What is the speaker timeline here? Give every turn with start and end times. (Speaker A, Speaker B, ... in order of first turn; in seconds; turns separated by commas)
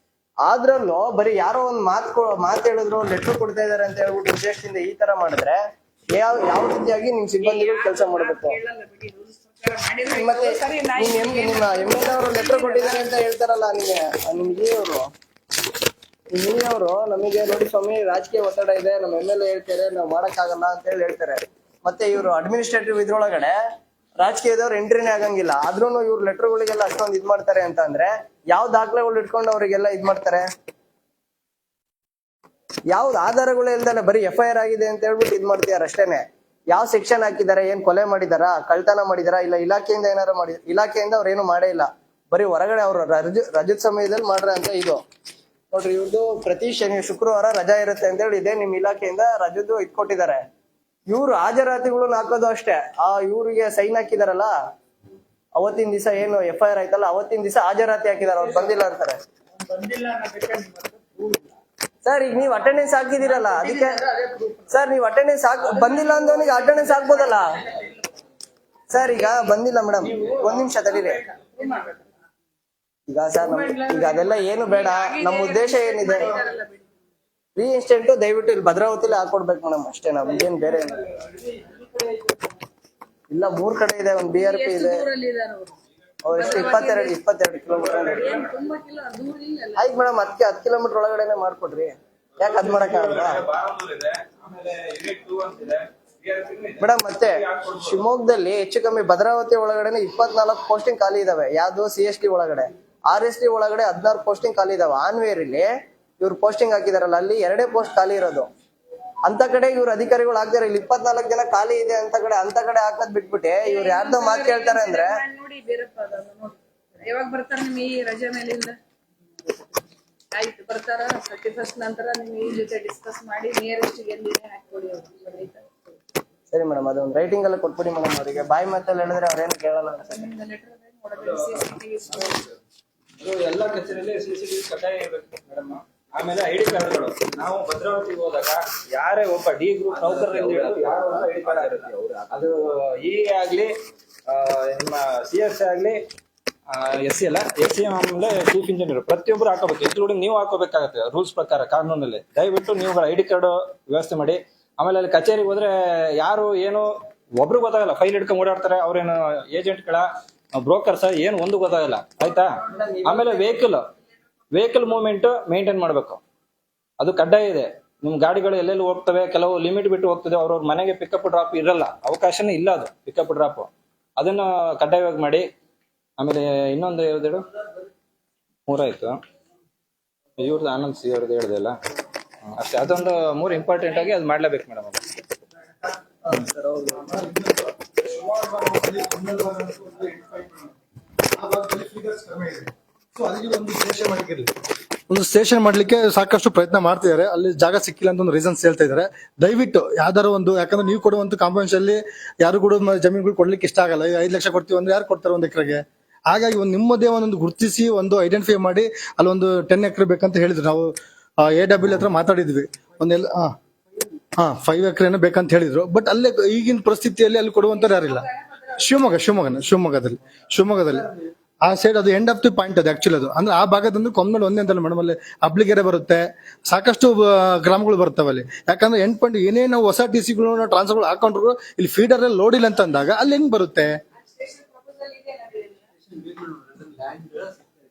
Speaker A: 0.5-5.6, Speaker A: 6.2-8.6, Speaker B: 7.4-13.2, Speaker A: 10.1-15.1, Speaker A: 16.3-23.5, Speaker A: 24.2-30.4, Speaker A: 32.9-45.0, Speaker A: 45.7-50.4, Speaker A: 51.1-54.5, Speaker A: 55.6-59.2, Speaker A: 62.0-64.0, Speaker A: 64.6-67.5, Speaker B: 66.0-67.2, Speaker A: 68.9-71.2, Speaker B: 70.2-72.1, Speaker A: 73.1-76.4, Speaker B: 73.4-76.8, Speaker A: 77.5-81.0, Speaker A: 83.3-85.0, Speaker B: 84.3-85.8, Speaker A: 86.2-88.4, Speaker B: 86.3-87.2, Speaker C: 87.8-88.1, Speaker B: 88.0-89.9, Speaker A: 89.7-93.4, Speaker C: 92.4-98.0, Speaker A: 96.8-105.7, Speaker A: 106.2-108.5, Speaker A: 109.2-115.2, Speaker B: 113.6-118.8, Speaker B: 120.3-125.7, Speaker A: 126.5-130.3, Speaker B: 130.1-132.4, Speaker C: 131.2-131.5, Speaker C: 133.2-143.7, Speaker C: 144.3-146.0, Speaker C: 146.7-162.5, Speaker A: 162.6-163.7, Speaker C: 163.0-163.9, Speaker C: 164.5-166.2, Speaker C: 167.0-175.5, Speaker C: 176.2-177.4, Speaker C: 178.7-179.2, Speaker C: 180.4-181.8, Speaker C: 182.5-185.0, Speaker A: 186.2-187.0, Speaker D: 187.0-190.7, Speaker D: 191.3-194.5, Speaker D: 195.1-213.5, Speaker D: 214.3-221.1, Speaker B: 217.8-218.8, Speaker D: 221.6-233.9, Speaker B: 234.2-235.9